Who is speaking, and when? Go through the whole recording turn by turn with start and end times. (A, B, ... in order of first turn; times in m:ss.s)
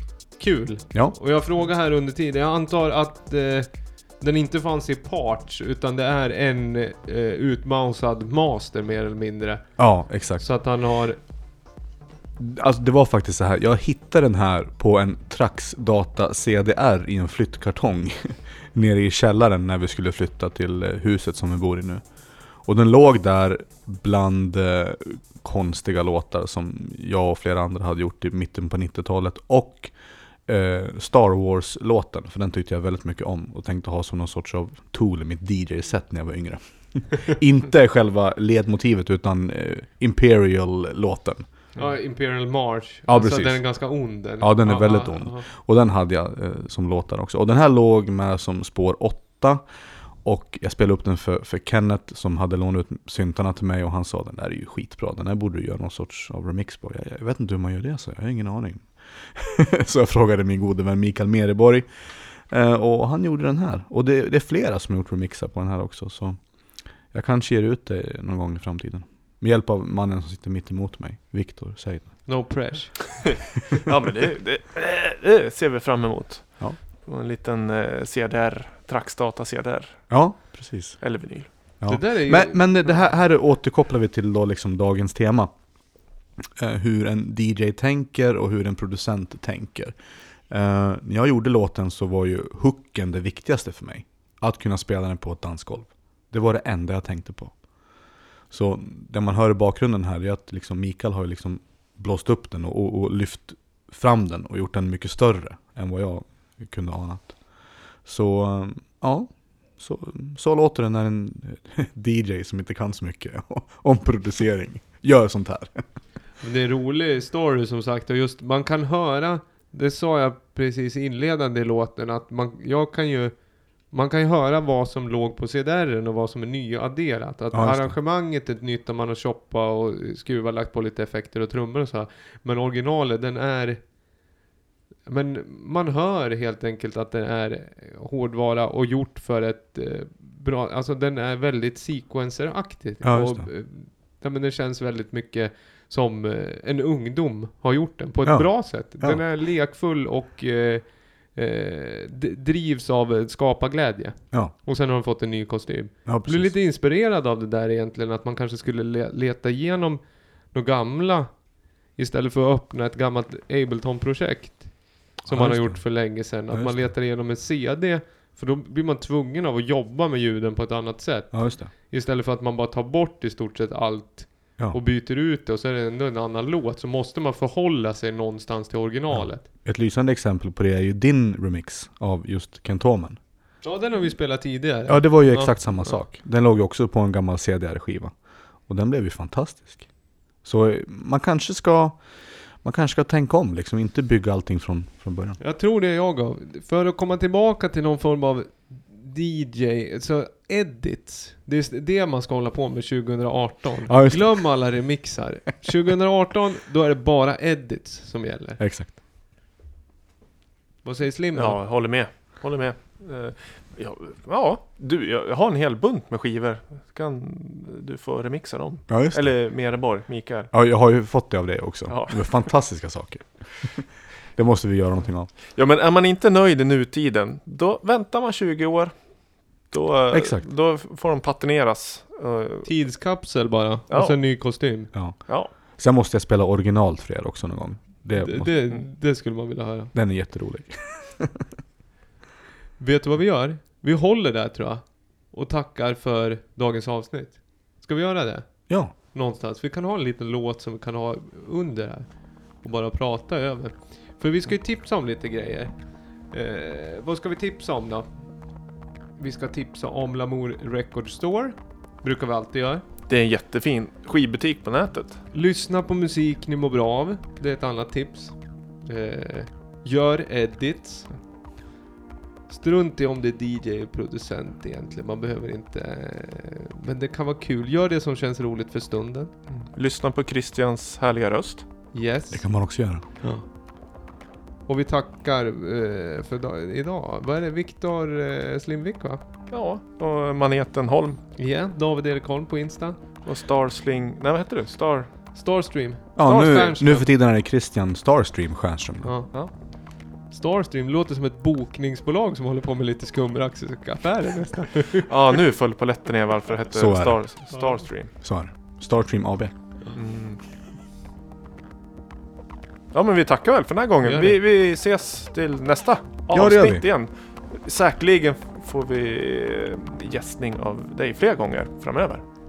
0:00.4-0:11.2 A
0:09.8-0:10.5 B
0:12.4-0:41.6 B
0:41.8-0:45.5 A
0:43.1-1:12.4 B
1:12.3-1:13.3 A
1:13.9-1:21.8 C
1:20.1-1:56.0 B
1:21.9-1:23.0 A
1:56.4-2:14.0 A
2:07.5-2:08.0 B
2:15.1-2:59.4 A
2:23.0-2:23.5 B
2:28.2-2:29.2 B
2:36.1-2:36.5 B
2:45.2-2:46.9 B
2:51.3-2:51.7 B
2:59.1-3:03.2 B
3:03.6-3:06.0 A
3:04.9-3:15.4 B
3:15.4-3:28.6 A
3:23.9-3:24.8 B
3:28.6-3:29.0 B
3:30.8-3:31.6 A
3:31.3-3:40.5 C
3:38.9-3:39.4 B
3:40.5-3:45.3 B
3:41.9-3:42.6 C
3:45.5-3:52.7 C
3:50.1-3:50.4 B
3:52.6-3:54.9 A
3:53.9-3:54.2 C
3:54.9-3:58.7 B
3:58.1-3:59.9 A
3:59.9-4:01.4 B
4:02.8-4:18.4 A
4:19.2-4:22.8 A
4:23.1-4:25.2 C
4:25.3-4:31.2 A
4:32.5-4:39.4 A
4:39.5-4:41.8 C
4:41.9-4:43.4 A
4:42.3-4:43.0 B
4:44.7-4:49.2 A
4:49.5-4:51.2 C
4:51.4-4:53.0 A
4:53.2-4:55.4 C
4:55.3-4:57.1 A
4:56.2-4:59.1 B
4:56.3-4:57.0 C
4:59.0-5:05.1 A
5:05.1-5:08.1 C
5:06.7-5:07.3 B
5:07.5-5:07.8 A
5:08.1-5:09.6 B
5:10.0-5:10.5 C
5:12.9-5:22.2 C
5:14.0-5:14.4 A
5:16.3-5:16.9 B